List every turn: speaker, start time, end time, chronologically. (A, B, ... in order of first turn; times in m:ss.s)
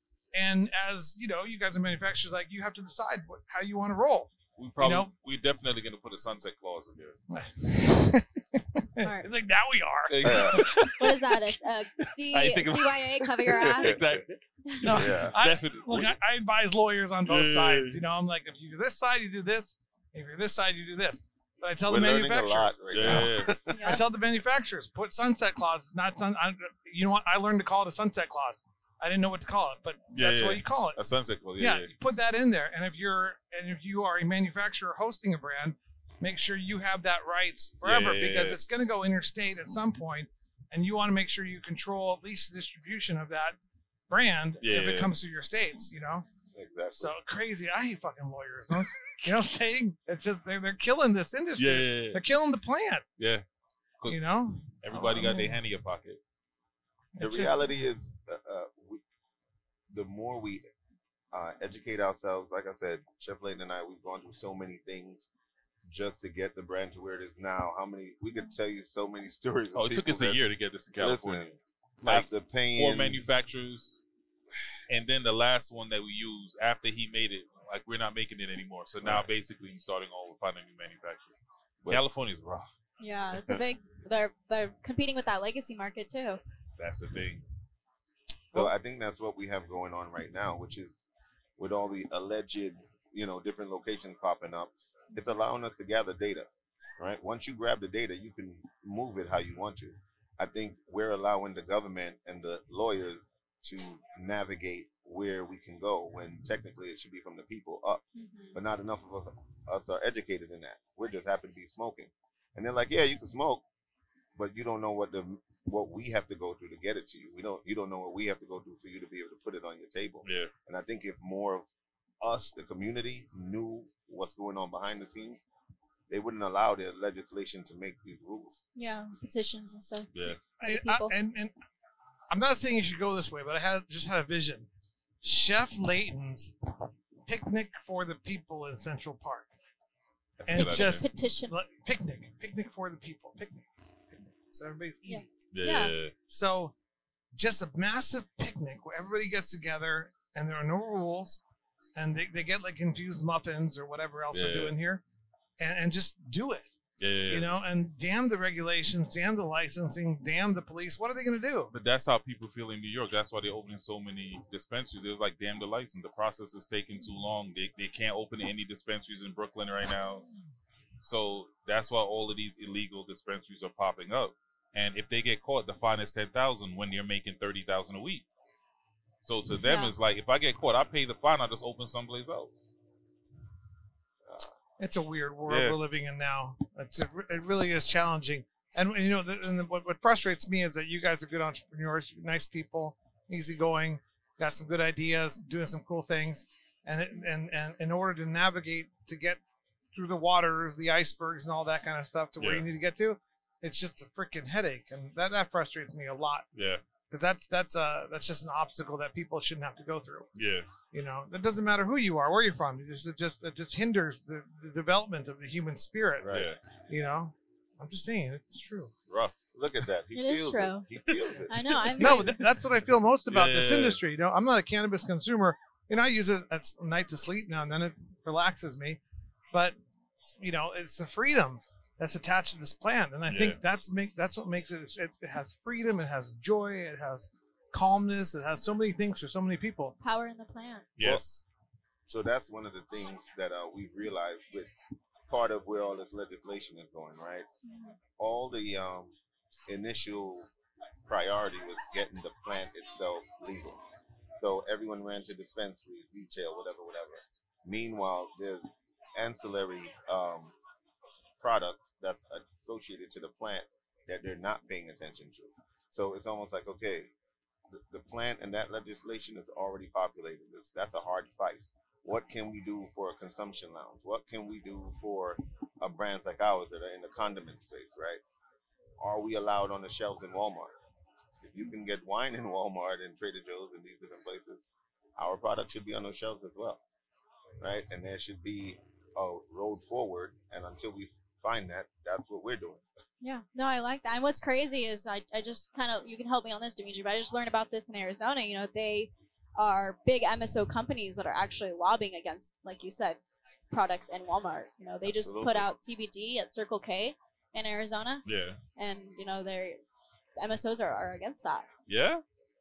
0:00.3-0:05.1 A
0:04.6-0:07.2 B
0:07.3-0:11.2 A
0:08.9-0:09.3 C
0:10.1-0:11.1 B
0:10.2-0:10.6 D
0:11.0-0:14.1 C
0:12.3-0:16.2 B
0:14.7-0:15.0 C
0:14.8-0:23.3 A
0:15.0-0:15.4 D
0:17.2-0:18.0 B
0:21.8-0:24.0 D
0:22.9-0:23.6 B
0:23.7-0:24.0 C
0:23.8-0:31.0 A
0:30.1-0:31.9 B
0:31.6-0:43.6 A
0:37.8-0:38.6 B
0:44.1-0:46.3 A
0:44.6-0:45.1 B
0:46.5-0:47.1 D
0:47.0-0:53.0 A
0:51.6-0:52.2 B
0:53.2-0:53.4 B
0:54.0-0:56.2 B
0:54.1-0:55.6 A
0:54.9-0:55.3 D
0:57.2-0:57.7 A
0:57.2-0:59.0 D
0:59.9-1:00.6 D
1:01.3-1:05.3 D
1:05.8-1:10.4 D
1:09.7-1:14.0 B
1:10.9-1:13.2 D
1:14.9-1:21.4 B
1:21.9-1:22.7 B
1:23.0-1:26.4 C
1:26.8-1:27.4 B
1:28.5-1:53.6 D
1:48.1-1:48.6 C
1:54.4-2:01.7 D
2:00.2-2:00.5 B
2:02.2-2:05.4 D
2:06.1-2:08.6 D
2:08.7-2:10.1 C
2:10.6-2:11.5 A
2:10.6-2:11.1 C
2:12.3-2:14.7 A
2:15.2-2:16.5 A
2:17.2-2:19.5 A
2:20.4-2:21.0 B
2:20.4-2:25.2 A
2:20.5-2:21.5 C
2:25.0-2:25.9 C
2:25.5-2:26.1 B
2:26.3-2:26.7 A
2:27.3-2:31.4 A
2:32.0-2:35.0 A
2:34.3-2:34.7 B
2:35.6-2:36.7 A
2:37.0-2:37.6 B
2:37.3-2:41.7 A
2:41.7-2:50.2 B
2:51.0-2:58.2 B
2:59.2-3:02.6 B
2:59.6-2:59.9 C
3:04.2-3:04.5 D
3:04.8-3:19.4 A
3:05.5-3:05.8 B
3:19.9-3:26.4 A
3:22.4-3:22.6 B
3:26.5-3:26.8 B
3:27.1-3:30.3 A
3:30.3-3:30.7 B
3:30.9-3:36.3 A
3:36.2-3:36.5 D
3:36.2-3:36.6 B
3:36.9-3:38.9 A
3:39.1-3:39.3 B
3:39.5-3:41.7 D
3:40.1-3:40.9 C
3:41.5-3:42.4 C
3:42.0-3:49.0 A
3:43.3-3:44.0 B
3:50.4-3:59.9 A
3:53.3-3:53.6 B
4:00.0-4:00.8 C
4:01.0-4:01.4 B
4:01.0-4:01.2 D
4:02.1-4:04.7 D
4:05.3-4:07.5 D
4:07.6-4:08.0 C
4:08.2-4:09.1 D
4:09.7-4:10.5 D
4:11.1-4:13.8 D
4:14.4-4:20.5 D
4:21.4-4:27.1 D
4:27.7-4:38.2 D
4:39.0-4:40.7 D
4:41.4-4:44.6 D
4:45.2-4:46.8 D
4:47.6-4:52.8 D
4:53.2-5:03.2 C
5:03.7-5:08.2 C
5:05.0-5:05.7 D
5:08.2-5:08.6 B
5:08.8-5:09.8 C
5:10.4-5:11.7 C
5:11.9-5:12.2 B